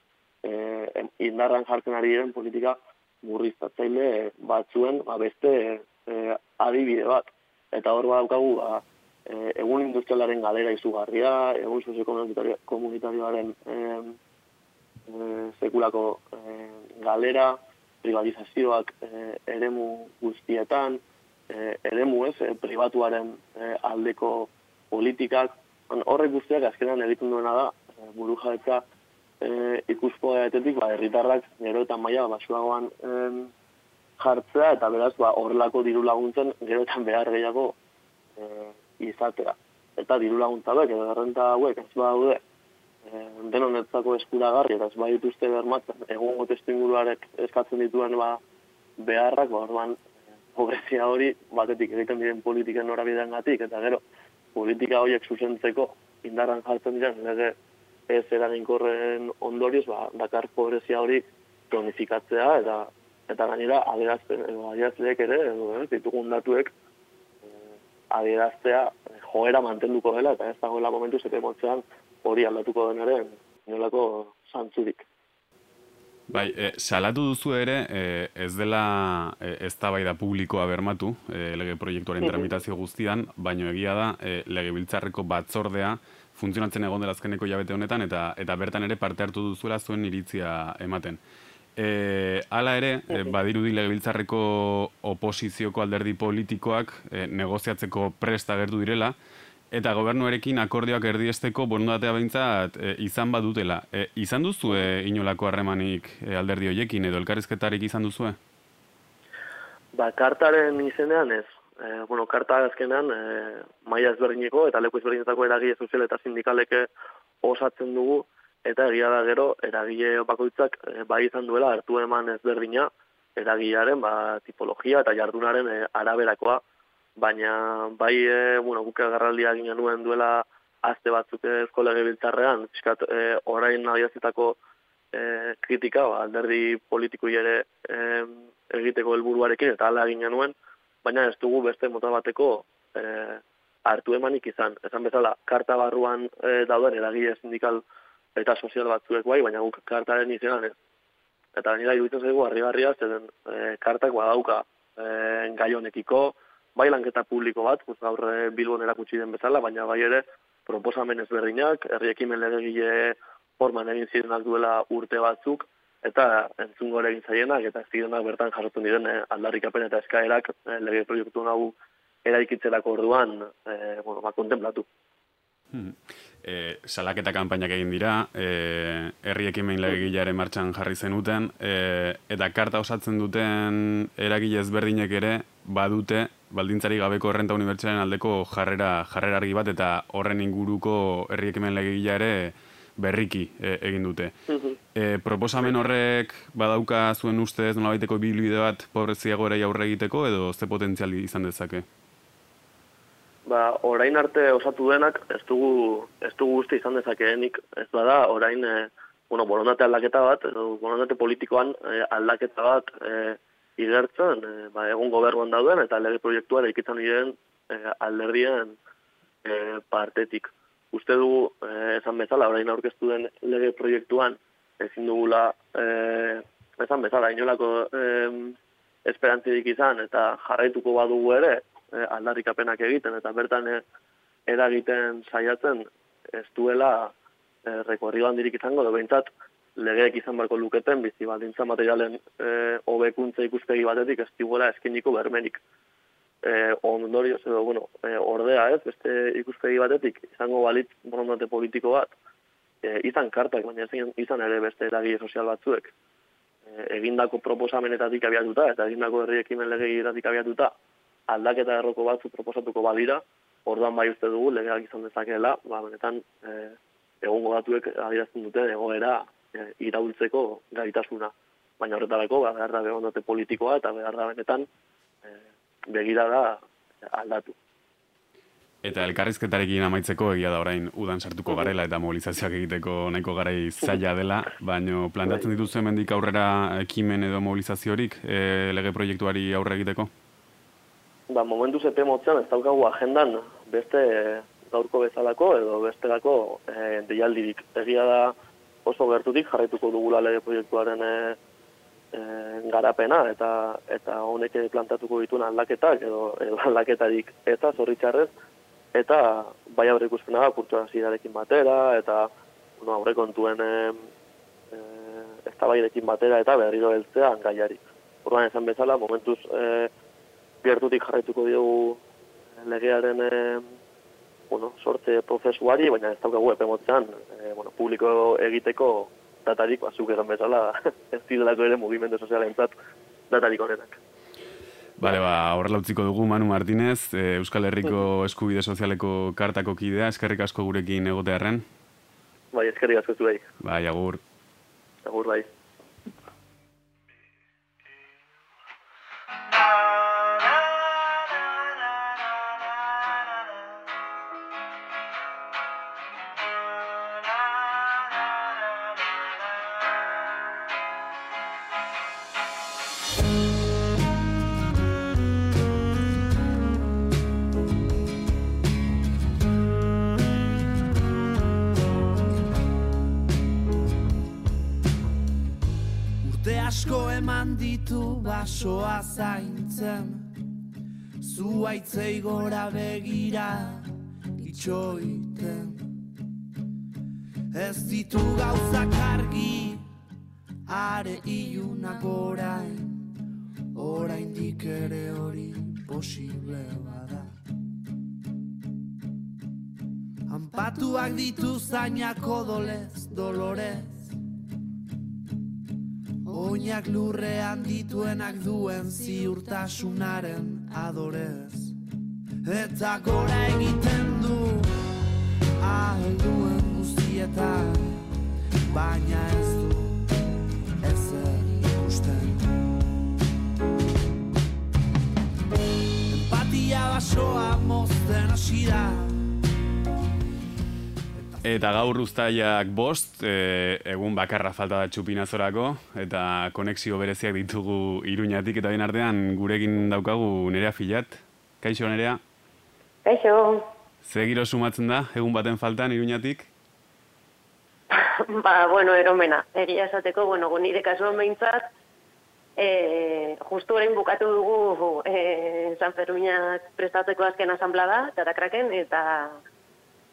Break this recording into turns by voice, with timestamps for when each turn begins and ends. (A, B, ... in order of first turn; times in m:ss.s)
0:00.4-0:14.2 A
0:15.1-0:28.8 A
0:29.4-0:33.5 A
0:34.2-0:37.8 A
0:38.4-0:42.4 A
0:43.0-0:48.4 A
0:49.0-0:50.0 A
0:50.5-0:54.0 A
0:54.5-0:57.6 A
0:58.1-1:06.7 A
1:08.1-1:15.0 A
1:16.3-1:31.2 B
1:22.2-1:22.5 A
1:31.8-1:39.2 B
1:39.7-1:48.4 B
1:49.9-1:56.9 A
1:57.4-2:06.6 A
2:07.2-2:14.6 A
2:15.1-2:27.8 A
2:28.4-2:30.8 A
2:31.6-2:54.8 A
2:55.7-3:14.3 B
3:14.5-3:14.8 A
3:14.9-3:21.8 B
3:23.4-3:38.8 A
3:39.4-3:53.8 A
3:54.5-3:57.1 A
3:57.6-4:05.6 A
4:06.4-4:12.1 A
4:12.8-4:15.9 A
4:16.7-4:20.7 A
4:21.3-4:34.7 A
4:35.2-4:37.5 A
4:38.8-4:50.1 B
4:51.3-4:58.3 A
4:58.8-5:01.4 A
5:02.1-5:08.3 A
5:08.9-5:14.1 A
5:14.7-5:19.9 A
5:20.6-5:22.0 A
5:22.6-5:23.7 A
5:24.5-5:32.7 A
5:33.3-5:34.0 A
5:35.0-5:41.6 B
5:42.5-5:43.4 A
5:43.6-5:44.2 B
5:45.0-5:45.5 A
6:16.2-6:20.3 C
6:21.2-6:25.9 C
6:27.5-6:29.9 C
6:30.6-6:33.1 C
6:33.7-6:37.3 C
6:40.3-6:44.1 C
6:46.2-6:51.8 C
6:52.4-6:54.7 C
6:55.6-6:58.1 C
6:58.7-7:00.0 C
7:00.8-7:02.5 C
7:06.1-7:09.2 C
7:11.4-7:22.2 B
7:23.0-7:23.6 D
7:24.0-7:26.5 B
7:27.9-7:31.7 D
7:32.6-7:39.4 D